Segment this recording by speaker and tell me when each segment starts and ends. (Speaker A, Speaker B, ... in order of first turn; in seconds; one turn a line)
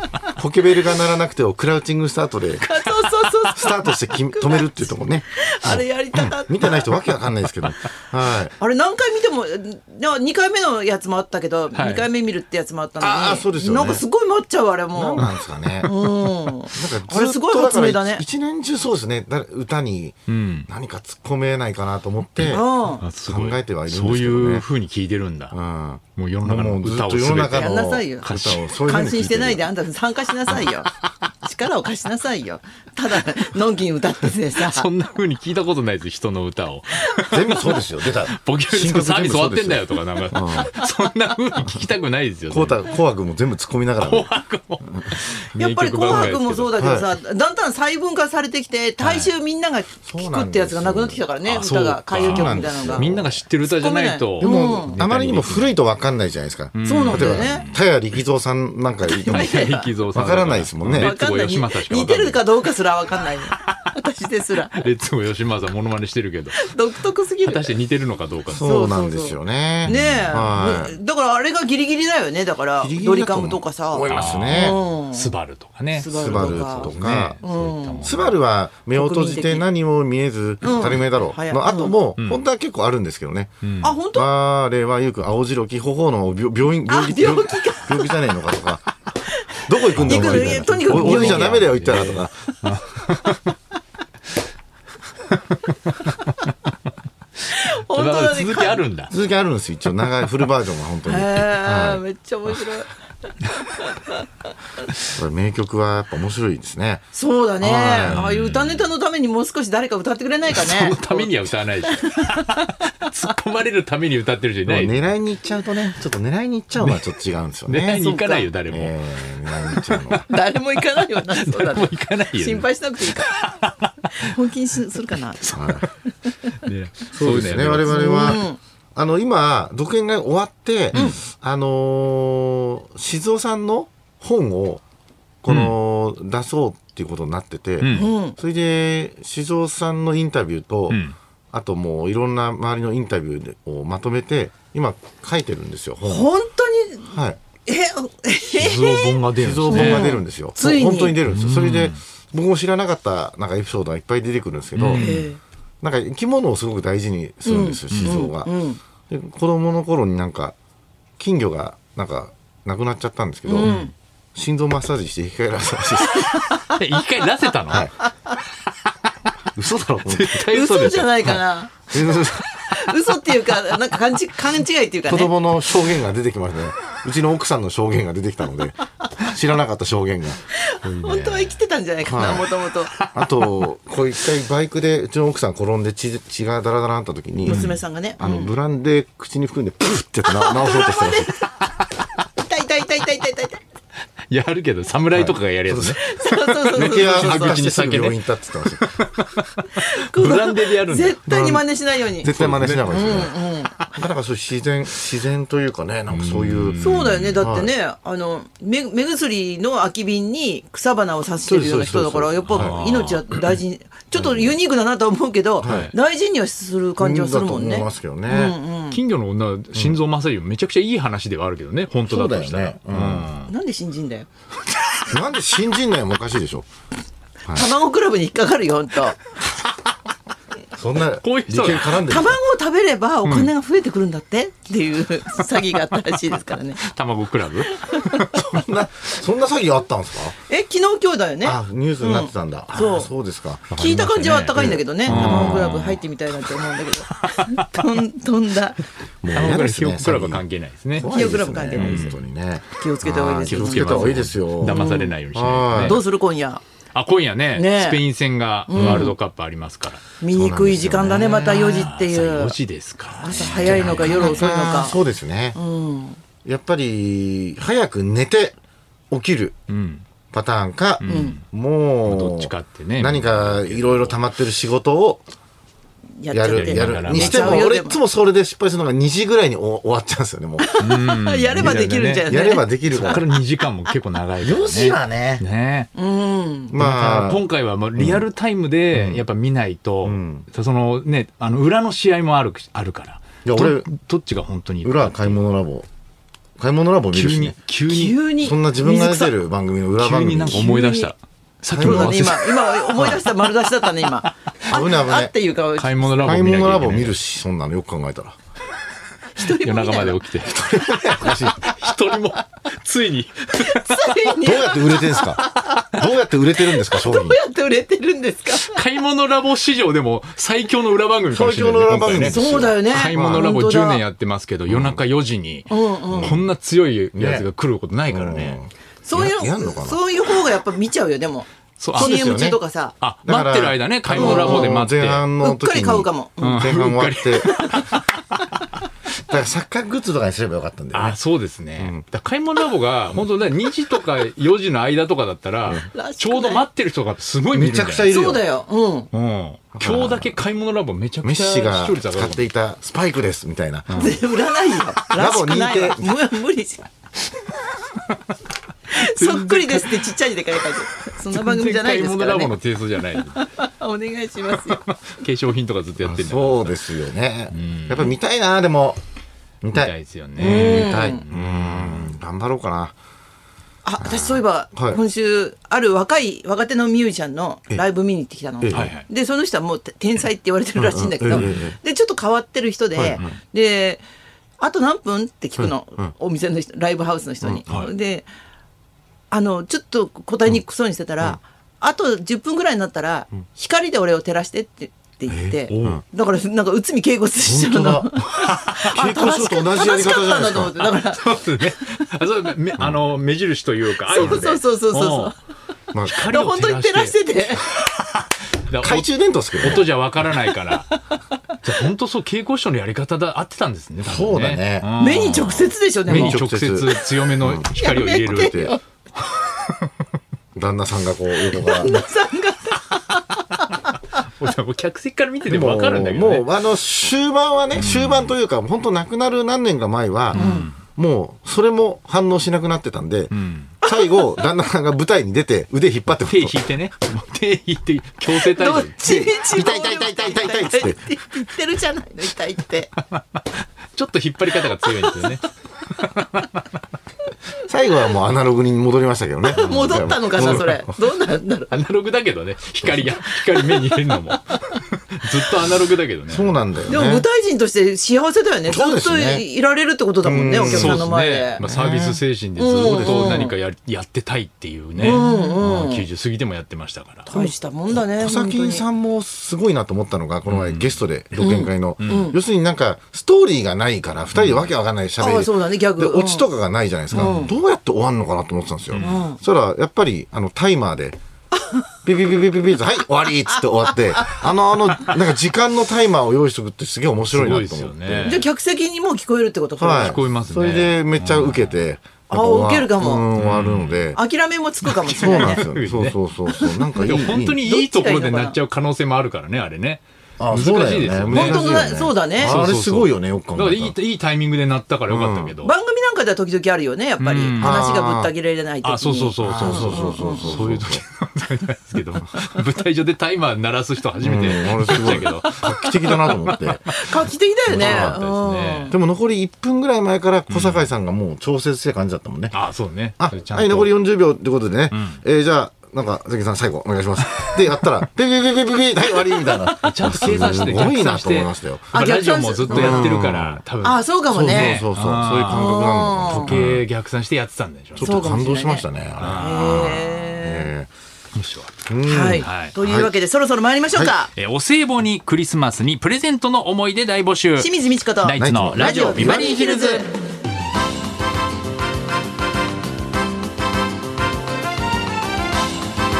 Speaker A: 0.3-2.8
Speaker B: 2.6-6.9
Speaker A: 3.5-8.5
Speaker B: 8.6-15.2
Speaker C: 11.7-12.1
Speaker A: 13.0-14.0
Speaker A: 14.9-15.9
Speaker C: 15.2-15.9
Speaker B: 15.8-18.2
Speaker A: 16.7-22.6
Speaker C: 20.3-20.7
Speaker C: 22.4-25.5
Speaker B: 22.5-23.0
Speaker A: 23.2-24.6
Speaker A: 25.5-29.6
Speaker C: 26.1-28.7
Speaker B: 27.5-30.9
Speaker B: 31.4-34.9
Speaker C: 34.5-42.8
Speaker A: 37.2-40.7
Speaker A: 42.5-44.3
Speaker C: 44.0-46.7
Speaker B: 45.5-55.0
Speaker A: 46.1-47.1
Speaker C: 49.0-49.3
Speaker A: 50.0-51.2
Speaker C: 51.4-55.8
Speaker A: 52.2-53.4
Speaker A: 54.4-61.1
Speaker C: 56.7-57.8
Speaker B: 56.8-57.6
Speaker B: 59.2-59.9
Speaker C: 59.2-62.6
Speaker B: 61.0-64.8
Speaker C: 63.5-63.9
Speaker C: 64.7-66.8
Speaker B: 66.6-67.8
Speaker C: 67.4-68.6
Speaker B: 68.5-75.3
Speaker A: 68.5-71.0
Speaker C: 69.8-70.4
Speaker A: 72.8-74.8
Speaker C: 74.1-78.4
Speaker B: 75.9-78.0
Speaker A: 76.1-77.4
Speaker A: 78.0-83.6
Speaker B: 78.9-79.6
Speaker B: 80.6-82.0
Speaker C: 82.2-82.4
Speaker C: 83.6-83.9
Speaker B: 83.8-84.3
Speaker A: 84.1-88.8
Speaker B: 86.9-88.1
Speaker B: 89.5-91.7
Speaker A: 89.7-92.3
Speaker C: 89.9-93.5
Speaker B: 92.5-92.7
Speaker C: 95.7-96.3
Speaker B: 97.5-98.8
Speaker C: 97.9-99.1
Speaker A: 99.1-102.0
Speaker B: 101.0-102.9
Speaker B: 103.5-104.3
Speaker A: 105.1-107.1
Speaker B: 107.1-111.3
Speaker A: 107.6-108.2
Speaker C: 108.1-108.8
Speaker C: 110.5-115.0
Speaker B: 111.9-112.8
Speaker A: 114.7-118.1
Speaker C: 116.8-117.0
Speaker C: 117.7-120.3
Speaker B: 117.9-118.5
Speaker A: 118.7-120.2
Speaker B: 120.3-123.3
Speaker C: 120.9-124.3
Speaker B: 124.1-126.5
Speaker C: 125.1-125.9
Speaker A: 125.5-125.9
Speaker C: 126.5-128.4
Speaker A: 127.1-134.8
Speaker B: 127.9-128.6
Speaker A: 135.4-141.0
Speaker C: 135.5-135.7
Speaker C: 137.8-138.1
Speaker B: 137.9-138.4
Speaker C: 140.9-141.1
Speaker A: 141.5-146.3
Speaker B: 146.1-147.1
Speaker A: 147.1-147.4
Speaker B: 147.7-151.2
Speaker C: 148.5-150.1
Speaker A: 149.3-155.1
Speaker C: 151.2-152.0
Speaker C: 154.8-155.3
Speaker B: 154.9-155.4
Speaker A: 155.8-158.5
Speaker B: 157.4-158.8
Speaker C: 157.9-158.2
Speaker A: 159.1-160.5
Speaker A: 161.2-166.5
Speaker B: 163.4-163.9
Speaker C: 163.6-163.9
Speaker B: 166.3-166.7
Speaker C: 166.6-167.9
Speaker A: 167.7-167.9
Speaker A: 169.5-170.3
Speaker C: 170.1-171.3
Speaker B: 170.4-171.9
Speaker A: 171.3-172.6
Speaker B: 172.6-175.3
Speaker A: 175.1-180.4
Speaker B: 180.5-182.9
Speaker C: 180.8-181.6
Speaker A: 182.1-182.4
Speaker A: 183.1-191.3
Speaker B: 187.4-188.5
Speaker C: 187.5-187.8
Speaker B: 190.3-191.5
Speaker B: 192.3-193.6
Speaker C: 194.3-201.6
Speaker A: 195.1-196.0
Speaker B: 196.0-197.6
Speaker A: 196.7-198.9
Speaker B: 199.7-202.3
Speaker A: 201.2-201.6
Speaker C: 202.2-203.9
Speaker A: 202.2-203.3
Speaker B: 202.9-203.8
Speaker A: 203.9-206.8
Speaker C: 206.1-207.4
Speaker B: 206.8-219.0
Speaker A: 207.4-207.7
Speaker A: 211.4-212.8
Speaker C: 212.5-213.2
Speaker A: 214.1-214.5
Speaker A: 215.6-215.9
Speaker C: 215.6-215.9
Speaker A: 217.0-218.5
Speaker C: 218.9-223.5
Speaker A: 222.1-223.3
Speaker B: 223.5-224.3
Speaker A: 225.1-226.7
Speaker B: 227.5-229.2
Speaker A: 230.7-232.4
Speaker C: 231.2-232.0
Speaker B: 232.0-236.8
Speaker C: 233.2-233.5
Speaker C: 236.8-238.4
Speaker B: 237.7-238.1
Speaker A: 238.3-240.3
Speaker B: 240.5-243.1
Speaker A: 241.4-243.7
Speaker C: 243.7-246.0
Speaker B: 243.7-248.8
Speaker A: 244.5-245.9
Speaker C: 247.4-247.8
Speaker A: 249.2-250.4
Speaker C: 249.3-251.1
Speaker A: 250.9-256.0
Speaker B: 251.0-252.2
Speaker C: 251.7-252.2
Speaker B: 252.8-255.1
Speaker C: 253.4-256.0
Speaker B: 255.8-256.6
Speaker C: 256.9-260.0
Speaker B: 257.5-258.0
Speaker B: 258.7-259.1
Speaker A: 258.7-259.1
Speaker B: 260.2-262.6
Speaker A: 260.3-261.3
Speaker C: 261.0-264.5
Speaker B: 263.1-265.0
Speaker A: 263.4-265.6
Speaker B: 265.5-266.2
Speaker A: 266.4-268.6
Speaker A: 269.1-269.6
Speaker C: 269.7-270.0
Speaker A: 270.3-275.2
Speaker C: 271.0-271.4
Speaker B: 271.0-271.4
Speaker C: 272.1-274.2
Speaker B: 276.2-278.0
Speaker A: 276.3-280.8
Speaker C: 276.5-277.7
Speaker B: 280.6-283.2
Speaker C: 280.8-282.3
Speaker A: 281.6-283.2
Speaker C: 282.9-285.9
Speaker A: 284.4-285.4
Speaker B: 285.9-286.7
Speaker A: 286.7-287.4
Speaker C: 286.8-295.4
Speaker A: 287.9-288.2
Speaker A: 288.9-289.2
Speaker A: 290.0-290.5
Speaker A: 293.4-293.9
Speaker A: 294.8-295.9
Speaker A: 296.6-297.6
Speaker C: 297.1-298.2
Speaker B: 297.9-299.3
Speaker A: 298.4-300.7
Speaker C: 300.0-303.2
Speaker B: 300.4-301.1
Speaker A: 301.7-302.3
Speaker B: 301.8-306.3
Speaker A: 304.7-305.3
Speaker C: 305.8-307.2
Speaker A: 306.2-308.3
Speaker B: 309.4-310.2
Speaker C: 309.4-314.4
Speaker A: 310.4-311.7
Speaker B: 313.6-316.0
Speaker A: 314.4-317.4
Speaker B: 316.9-318.8
Speaker C: 318.5-328.6
Speaker A: 321.3-323.5
Speaker B: 322.2-324.0
Speaker A: 324.7-325.0
Speaker B: 325.7-326.3
Speaker A: 326.1-326.5
Speaker A: 327.1-327.5
Speaker A: 328.1-330.0
Speaker B: 329.0-332.9
Speaker C: 331.8-332.2
Speaker A: 331.9-332.6
Speaker C: 333.0-335.2
Speaker A: 333.2-337.5
Speaker B: 334.1-334.7
Speaker B: 335.4-336.7
Speaker C: 336.4-338.2
Speaker B: 337.4-338.0
Speaker A: 339.2-341.2
Speaker C: 340.9-348.2
Speaker A: 341.8-342.0
Speaker B: 345.9-346.6
Speaker A: 347.5-348.4
Speaker B: 348.1-349.1
Speaker C: 349.1-352.4
Speaker A: 349.7-350.3
Speaker A: 351.2-354.1
Speaker C: 353.9-354.2
Speaker B: 353.9-356.9
Speaker A: 355.1-356.1
Speaker B: 358.9-362.5
Speaker C: 358.9-360.1
Speaker C: 361.2-363.5
Speaker B: 363.3-364.8
Speaker C: 364.5-366.9
Speaker A: 366.0-369.0
Speaker C: 367.5-368.1
Speaker A: 369.6-372.9
Speaker C: 369.7-372.1
Speaker B: 370.4-371.2
Speaker B: 373.8-384.0
Speaker A: 374.0-375.0
Speaker A: 378.6-378.9
Speaker C: 378.7-379.1
Speaker A: 380.8-381.8
Speaker C: 381.3-381.6
Speaker A: 382.9-383.3
Speaker B: 384.6-388.3
Speaker A: 385.6-386.1
Speaker A: 387.4-387.8
Speaker B: 389.3-402.0
Speaker A: 395.3-396.0
Speaker C: 395.7-396.0
Speaker A: 397.4-400.8
Speaker C: 398.3-398.9
Speaker C: 401.0-405.3
Speaker B: 404.1-405.4
Speaker A: 404.1-404.5
Speaker A: 405.9-406.2
Speaker C: 406.1-407.9
Speaker B: 406.1-407.6
Speaker C: 408.6-409.1
Speaker A: 408.8-409.9
Speaker C: 409.6-411.0
Speaker C: 411.6-418.7
Speaker A: 414.0-414.9
Speaker B: 415.0-416.4
Speaker A: 416.1-417.7
Speaker B: 417.8-418.8
Speaker C: 419.3-419.7
Speaker A: 420.5-422.1
Speaker B: 421.5-423.8
Speaker C: 424.2-426.5
Speaker A: 425.4-436.6
Speaker C: 427.7-428.3
Speaker C: 430.3-430.7
Speaker B: 430.3-430.7
Speaker C: 433.3-433.7
Speaker B: 433.8-434.2
Speaker C: 436.2-439.2
Speaker B: 438.3-442.9
Speaker A: 439.0-441.1
Speaker C: 443.2-446.6
Speaker B: 444.8-445.3
Speaker A: 447.6-450.8
Speaker B: 449.5-451.7
Speaker C: 449.6-450.7
Speaker C: 451.7-456.6
Speaker B: 453.6-453.8
Speaker A: 456.3-457.2
Speaker B: 456.9-461.6
Speaker A: 458.7-459.4
Speaker A: 460.2-462.2
Speaker C: 460.6-467.4
Speaker B: 462.6-463.5
Speaker A: 462.7-463.5
Speaker B: 465.0-466.0
Speaker A: 465.0-465.3
Speaker B: 467.3-468.8
Speaker A: 467.4-481.2
Speaker C: 470.5-471.0
Speaker B: 471.4-472.4
Speaker C: 472.0-472.3
Speaker C: 474.3-474.6
Speaker B: 475.2-476.5
Speaker C: 477.1-477.5
Speaker B: 477.1-477.5
Speaker C: 478.9-479.3
Speaker B: 479.0-479.4
Speaker A: 482.0-488.4
Speaker B: 484.2-484.4
Speaker C: 487.3-488.4
Speaker B: 488.2-490.2
Speaker A: 489.8-494.2
Speaker C: 489.9-491.8
Speaker B: 492.3-493.2
Speaker C: 493.4-494.1
Speaker B: 494.1-495.6
Speaker C: 494.8-501.8
Speaker A: 495.0-497.6
Speaker B: 497.6-498.6
Speaker A: 500.4-503.9
Speaker B: 501.3-502.6
Speaker C: 502.4-505.7
Speaker A: 505.1-505.6
Speaker B: 505.6-510.6
Speaker C: 507.2-507.8
Speaker A: 507.6-508.3
Speaker C: 508.8-517.1
Speaker A: 509.4-511.0
Speaker A: 514.2-516.9
Speaker B: 516.9-518.9
Speaker A: 517.7-518.2
Speaker C: 517.7-518.9
Speaker A: 518.9-522.6
Speaker C: 520.5-520.9
Speaker C: 522.5-524.0
Speaker A: 523.2-531.9
Speaker C: 524.9-525.2
Speaker B: 529.4-530.8
Speaker C: 529.8-538.3
Speaker B: 531.9-533.2
Speaker A: 532.7-533.6
Speaker B: 533.8-534.8
Speaker A: 534.3-536.8
Speaker B: 535.5-536.5
Speaker A: 538.0-540.9
Speaker B: 538.0-540.7
Speaker C: 539.2-540.0
Speaker C: 541.3-541.7
Speaker A: 541.9-543.1
Speaker B: 542.0-544.3
Speaker C: 542.3-542.8
Speaker C: 544.3-550.0
Speaker B: 547.6-550.1
Speaker A: 548.4-550.0